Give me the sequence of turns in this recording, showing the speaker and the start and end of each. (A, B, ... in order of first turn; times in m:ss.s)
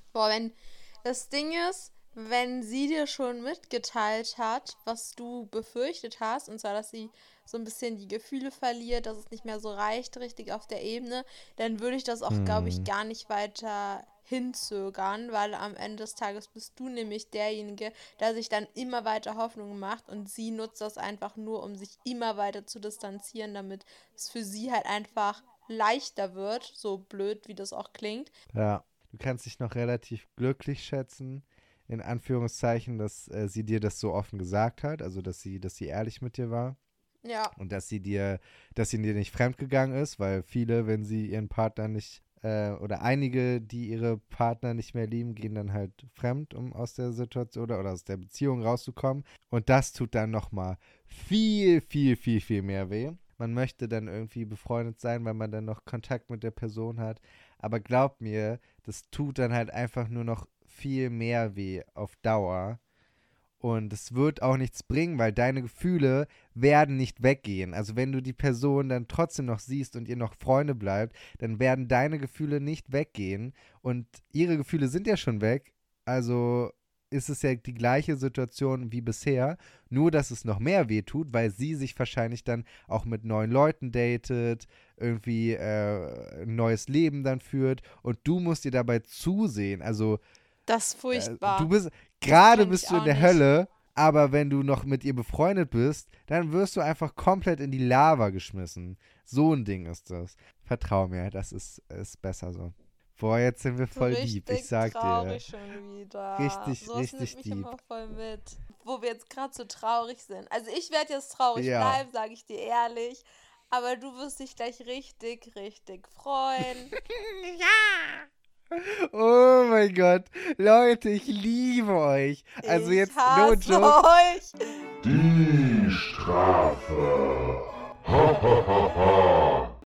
0:00.1-0:28.3 A
0:12.3-0:12.9 B
0:28.5-0:36.8 B
0:37.2-0:37.5 A
0:37.6-1:02.8 B
1:03.6-1:30.2 B
1:30.7-1:31.7 A
1:31.1-1:45.4 B
1:32.3-1:33.4 A
1:43.9-1:56.9 A
1:46.4-1:47.7 B
1:51.6-1:52.0 B
1:57.0-2:04.0 B
2:02.6-2:04.5 A
2:05.0-2:09.7 C